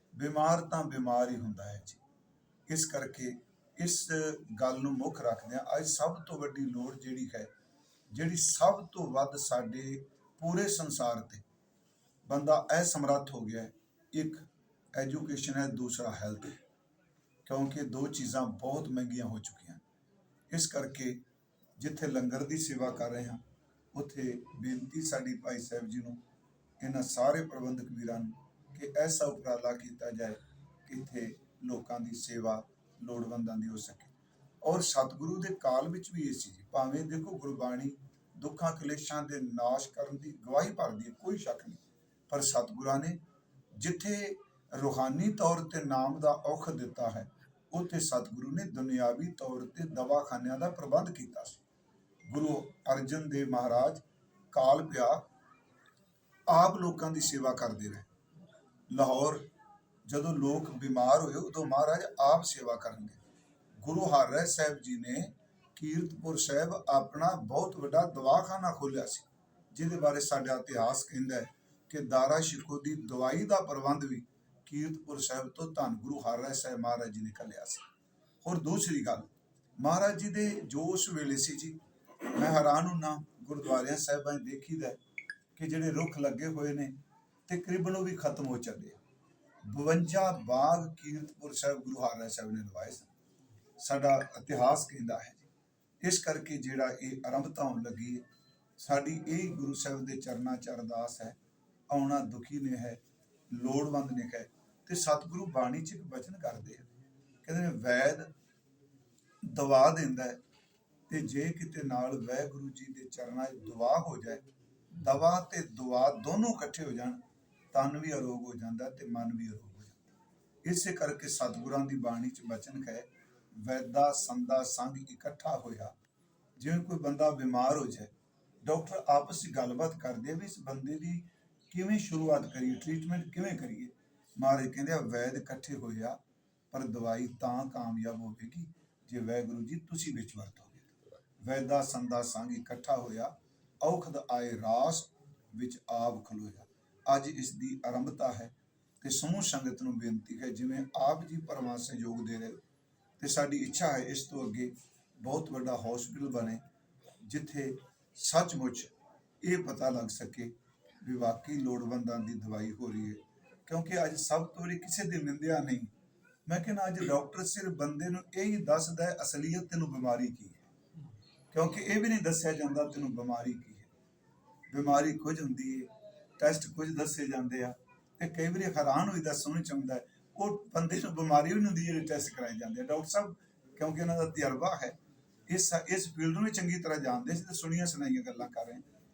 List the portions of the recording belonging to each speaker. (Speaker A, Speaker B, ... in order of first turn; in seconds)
Speaker A: 0.2-2.0, 2.7-7.5, 8.1-11.4, 12.3-14.4, 15.0-16.6, 17.5-19.8, 20.5-21.2, 21.8-23.4, 23.9-26.2, 26.8-34.1, 34.6-43.2, 43.8-51.6, 52.3-55.2, 56.5-58.1, 58.9-59.5, 60.1-63.2, 63.8-77.8, 78.4-79.3, 79.8-81.8, 82.3-85.0, 85.6-86.9, 87.5-89.0, 89.7-93.1, 93.8-95.5, 96.0-98.2, 98.8-101.4, 101.9-103.0, 103.5-106.9, 107.4-108.3, 109.5-110.4, 111.1-114.4, 115.0-117.2, 117.7-120.1, 120.6-123.1, 123.6-125.9, 126.6-128.1, 128.6-136.2, 136.7-140.8, 141.4-152.6, 153.2-156.6, 157.3-158.9, 159.4-160.5, 161.0-165.9, 166.5-170.7, 171.5-173.9, 174.7-184.9, 185.5-188.8